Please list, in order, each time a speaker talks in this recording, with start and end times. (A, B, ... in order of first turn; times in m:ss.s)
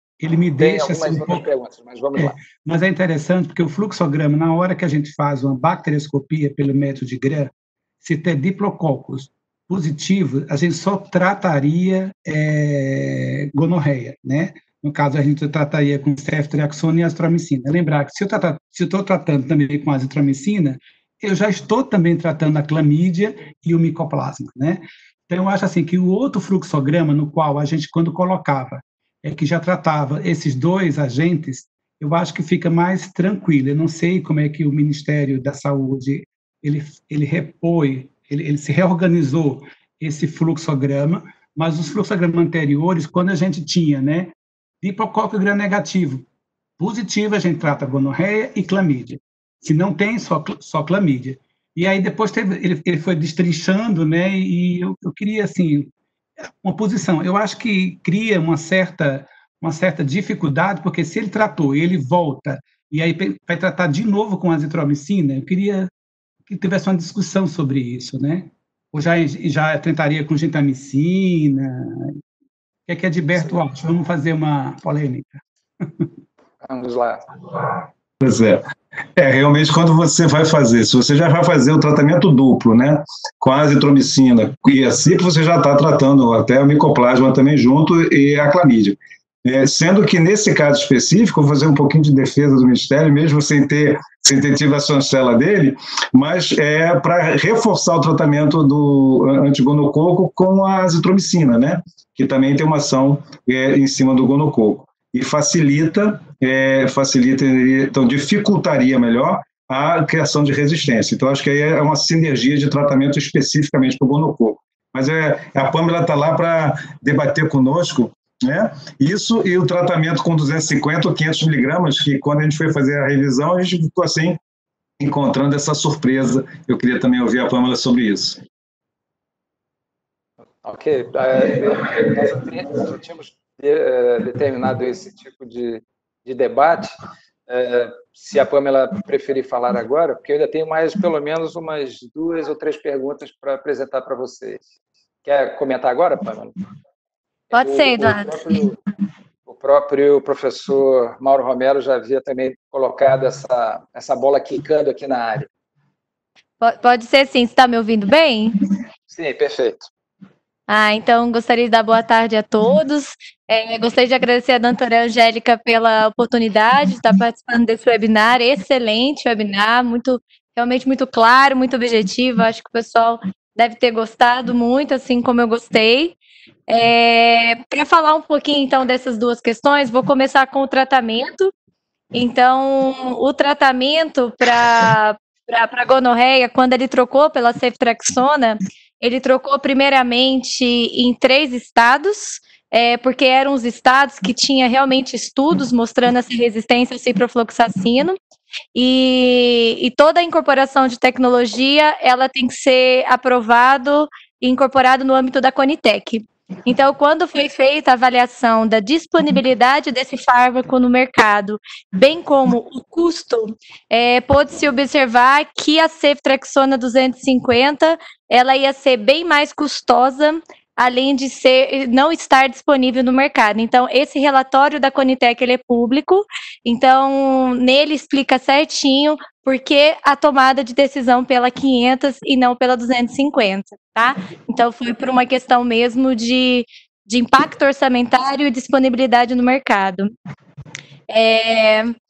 0:00.2-0:01.4 A
0:00.6-0:02.4 B
0:02.2-0:46.3 A
0:46.8-0:55.9 A
0:56.6-1:05.9 A
1:06.5-1:12.2 A
1:12.9-1:16.1 A
1:16.6-1:17.3 B
1:18.2-1:18.6 C
1:19.2-2:04.4 C
2:05.0-2:08.4 C
2:10.6-2:24.6 B
2:25.2-2:26.6 B
2:27.5-2:28.8 B
2:27.5-2:28.5 D
2:29.5-2:35.5 B
2:36.6-2:38.6 D
2:39.1-2:39.9 B
2:40.7-2:56.2 D
2:56.7-3:01.5 D
3:02.1-3:18.2 D
3:18.8-4:00.1 D
4:01.1-4:01.9 D